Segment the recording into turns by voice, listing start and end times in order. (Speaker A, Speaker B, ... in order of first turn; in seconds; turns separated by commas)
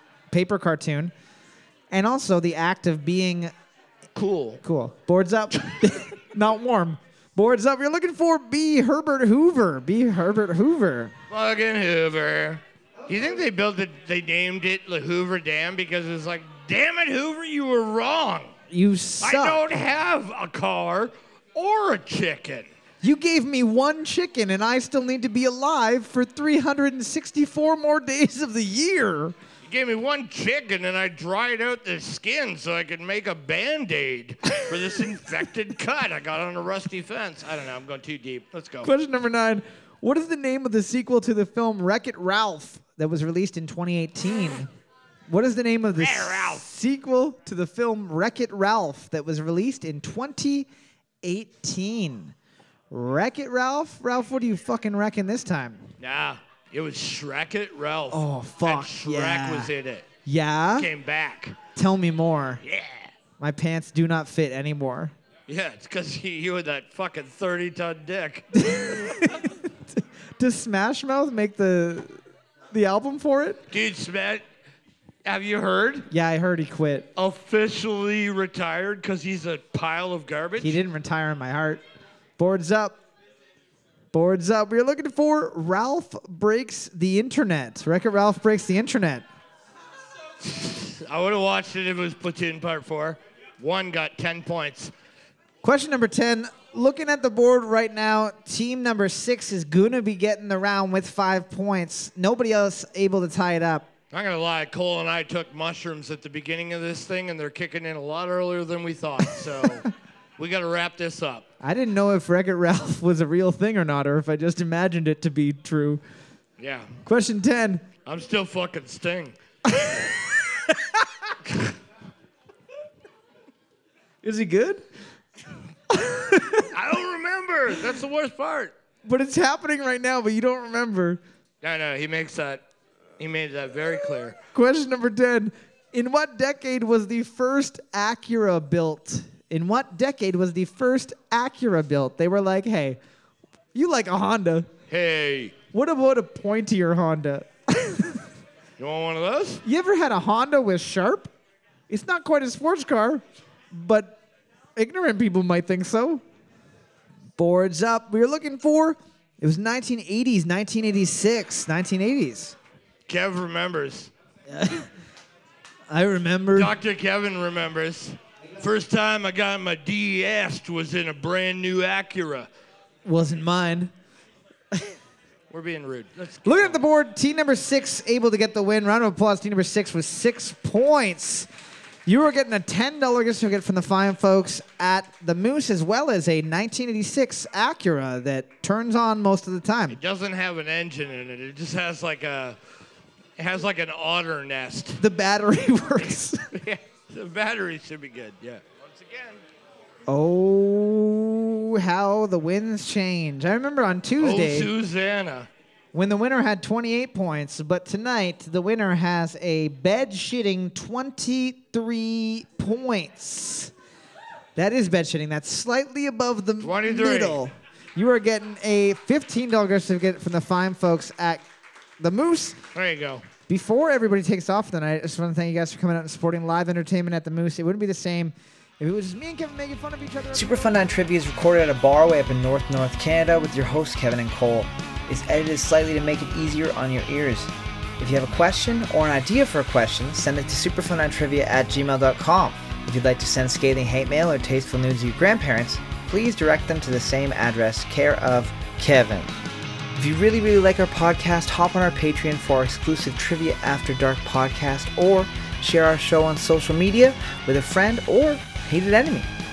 Speaker A: 0.3-1.1, Speaker A: 1.9-3.5, Speaker B: 4.2-4.6, Speaker A: 4.6-11.1, Speaker B: 11.3-18.5, Speaker A: 18.7-19.6, Speaker B: 19.2-22.7, Speaker A: 23.0-29.4, Speaker B: 29.6-38.9, Speaker A: 38.8-44.7, Speaker A: 45.3-50.7, Speaker B: 46.0-46.6, Speaker A: 51.2-52.3, Speaker A: 52.9-55.9, Speaker B: 56.0-60.0, Speaker A: 58.1-59.7, Speaker A: 60.3-60.9, Speaker B: 60.8-61.6, Speaker A: 61.8-62.6, Speaker B: 62.6-63.1, Speaker A: 63.4-65.1, Speaker B: 65.5-68.8, Speaker A: 68.5-72.2, Speaker A: 72.7-73.7, Speaker B: 73.7-74.4, Speaker B: 75.2-76.1, Speaker A: 76.1-77.1, Speaker B: 77.2-80.8, Speaker A: 80.6-81.8, Speaker A: 82.4-83.0, Speaker A: 84.1-89.3, Speaker B: 90.4-94.9, Speaker A: 95.6-103.9, Speaker B: 104.1-111.5, Speaker A: 111.6-116.0, Speaker B: 116.6-117.0, Speaker A: 117.0-117.8, Speaker B: 118.0-119.4, Speaker A: 119.7-121.1, Speaker A: 124.2-124.8, Speaker A: 125.9-126.7, Speaker B: 126.7-128.8, Speaker A: 129.0-131.2, Speaker B: 131.6-132.6, Speaker B: 133.2-134.4, Speaker A: 134.5-143.0, Speaker A: 143.7-144.7, Speaker B: 144.9-145.6, Speaker A: 145.7-148.2, Speaker B: 148.8-149.6, Speaker A: 149.6-151.3, Speaker A: 151.9-154.2, Speaker A: 154.8-156.2, Speaker A: 157.4-162.6, Speaker B: 163.1-164.1, Speaker A: 164.5-164.9, Speaker A: 165.9-166.8, Speaker B: 166.5-172.5, Speaker A: 173.1-173.9, Speaker B: 175.5-176.8, Speaker A: 176.4-181.5, Speaker A: 182.1-190.0, Speaker B: 189.9-192.6, Speaker B: 193.4-195.0, Speaker A: 195.0-196.5, Speaker B: 196.5-199.4, Speaker A: 200.1-204.7, Speaker B: 204.2-205.5, Speaker A: 205.9-213.7, Speaker A: 214.6-221.4, Speaker B: 216.6-217.4, Speaker A: 222.0-222.6, Speaker B: 222.8-223.2, Speaker A: 223.5-230.9, Speaker C: 230.3-249.3, Speaker C: 249.9-259.3